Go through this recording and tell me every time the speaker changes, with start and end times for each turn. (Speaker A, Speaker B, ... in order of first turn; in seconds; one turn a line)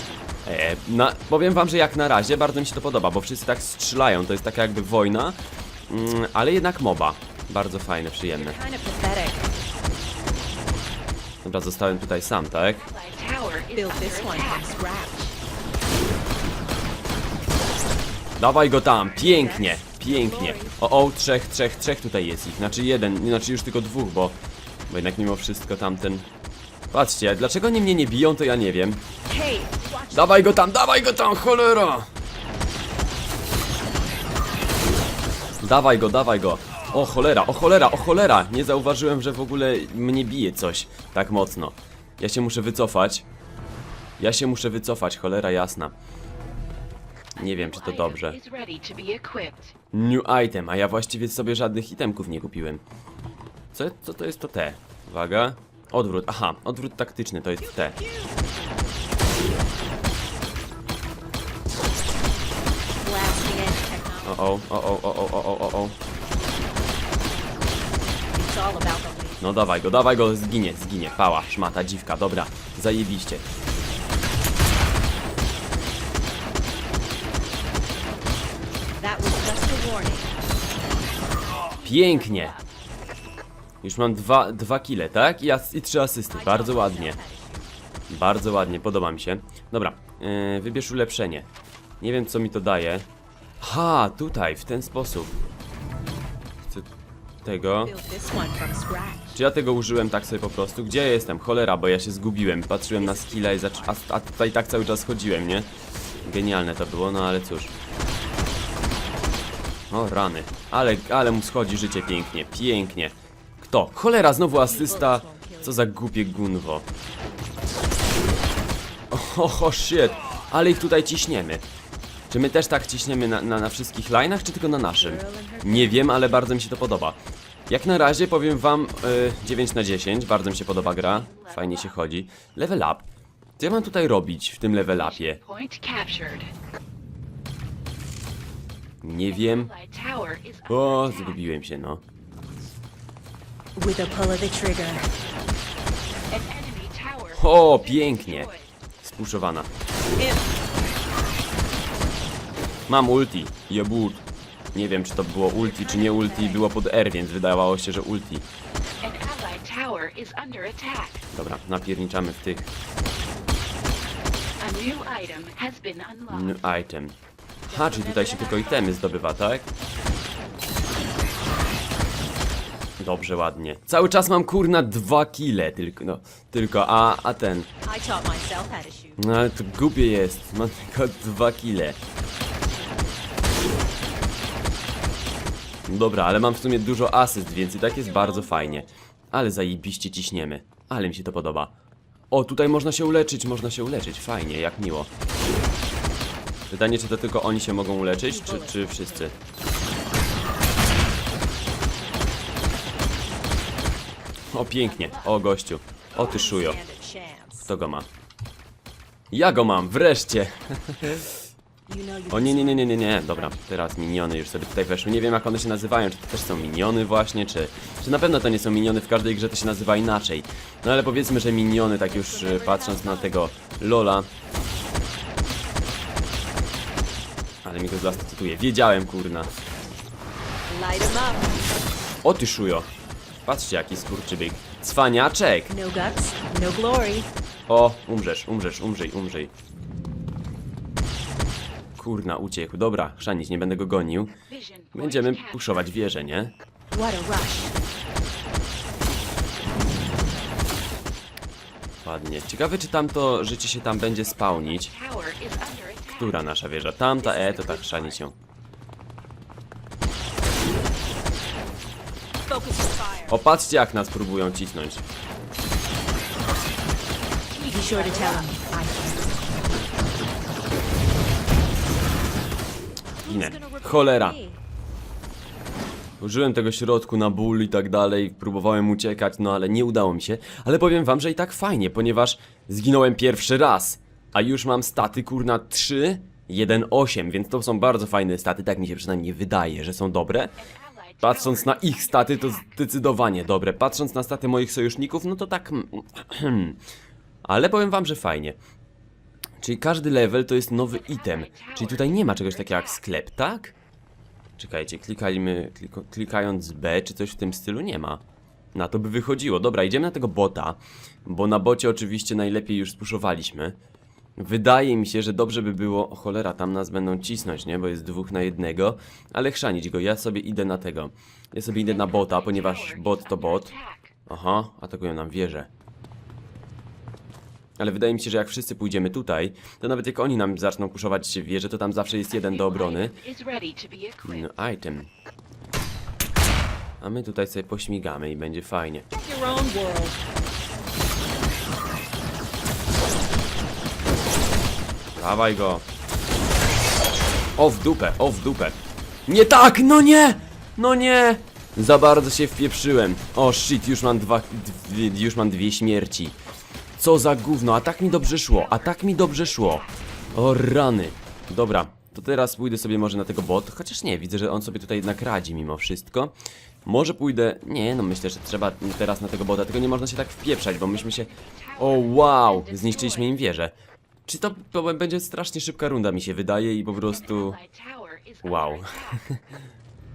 Speaker A: 0.5-8.6
Speaker B: 8.3-9.5
Speaker A: 11.4-12.9
Speaker C: 12.6-14.8
Speaker B: 13.7-15.3
Speaker A: 18.4-24.4
Speaker B: 19.2-20.8
Speaker A: 24.9-26.3
Speaker A: 26.9-29.0
Speaker B: 29.2-30.6
Speaker A: 30.1-32.1
Speaker A: 35.6-43.2
Speaker A: 44.2-45.9
Speaker A: 47.4-48.4
Speaker C: 47.4-49.7
Speaker A: 49.9-52.8
Speaker A: 53.7-58.0
Speaker B: 57.7-58.3
Speaker B: 63.0-64.5
Speaker A: 64.2-66.0
Speaker B: 68.3-69.8
Speaker A: 69.4-73.5
Speaker B: 79.0-80.3
Speaker A: 81.8-82.5
Speaker C: 81.8-82.6
Speaker A: 83.8-87.2
Speaker B: 86.3-87.7
Speaker A: 88.1-91.5
Speaker A: 92.0-93.1
Speaker A: 93.6-95.3
Speaker A: 97.4-97.9
Speaker B: 97.8-99.4
Speaker A: 99.3-105.7
Speaker B: 102.9-104.0
Speaker A: 106.2-107.7
Speaker A: 109.9-116.9
Speaker B: 114.6-115.8
Speaker A: 119.1-121.7
Speaker A: 122.3-135.4
Speaker B: 125.0-126.2
Speaker C: 130.8-132.0
Speaker C: 134.8-136.5
Speaker A: 139.0-139.7
Speaker C: 139.3-141.5
Speaker A: 140.7-142.0
Speaker B: 143.8-145.1
Speaker C: 146.3-148.8
Speaker A: 147.3-149.7
Speaker B: 150.2-150.4
Speaker A: 152.9-158.5
Speaker B: 155.6-156.7
Speaker C: 159.0-161.2
Speaker A: 161.3-162.7
Speaker C: 164.6-166.6
Speaker A: 166.3-169.7
Speaker B: 167.7-169.0
Speaker A: 173.0-177.7
Speaker B: 177.8-179.2
Speaker A: 179.2-182.0
Speaker A: 185.9-191.7
Speaker B: 187.7-188.9
Speaker A: 192.3-195.1
Speaker A: 196.7-199.3
Speaker B: 198.2-199.4
Speaker A: 204.5-206.8
Speaker C: 204.8-205.4
Speaker B: 206.2-207.7
Speaker A: 207.7-208.1
Speaker A: 209.3-211.4
Speaker B: 211.9-213.6
Speaker A: 212.3-224.3
Speaker B: 222.1-223.5
Speaker A: 227.6-229.5
Speaker B: 230.7-231.5
Speaker A: 232.2-232.9
Speaker A: 233.4-235.7
Speaker B: 235.7-237.3
Speaker A: 237.7-239.5
Speaker A: 242.0-244.3
Speaker C: 244.5-245.8
Speaker A: 244.9-246.5
Speaker B: 246.9-247.8
Speaker A: 252.0-254.9
Speaker C: 254.3-256.5
Speaker A: 256.1-258.4
Speaker C: 257.2-258.2
Speaker B: 257.4-257.8
Speaker B: 262.4-263.4
Speaker A: 263.3-265.0
Speaker C: 267.5-268.6
Speaker B: 267.6-269.2
Speaker B: 273.2-274.6
Speaker A: 273.2-274.4
Speaker A: 276.2-290.6
Speaker C: 290.6-292.8
Speaker A: 291.2-296.8
Speaker A: 297.4-298.6
Speaker A: 299.6-303.8
Speaker C: 300.9-303.0
Speaker A: 304.6-308.2
Speaker A: 308.7-313.8
Speaker A: 314.4-323.7
Speaker C: 321.8-324.1
Speaker A: 324.3-325.7
Speaker A: 327.8-333.2
Speaker C: 332.3-334.5
Speaker A: 334.2-335.1
Speaker A: 337.0-339.1
Speaker B: 339.1-340.2
Speaker A: 345.1-345.9
Speaker A: 347.6-356.4
Speaker A: 357.0-366.3
Speaker C: 358.0-359.9
Speaker A: 366.9-373.7
Speaker C: 370.8-373.3
Speaker A: 374.2-377.6
Speaker C: 377.0-379.2
Speaker A: 378.4-379.4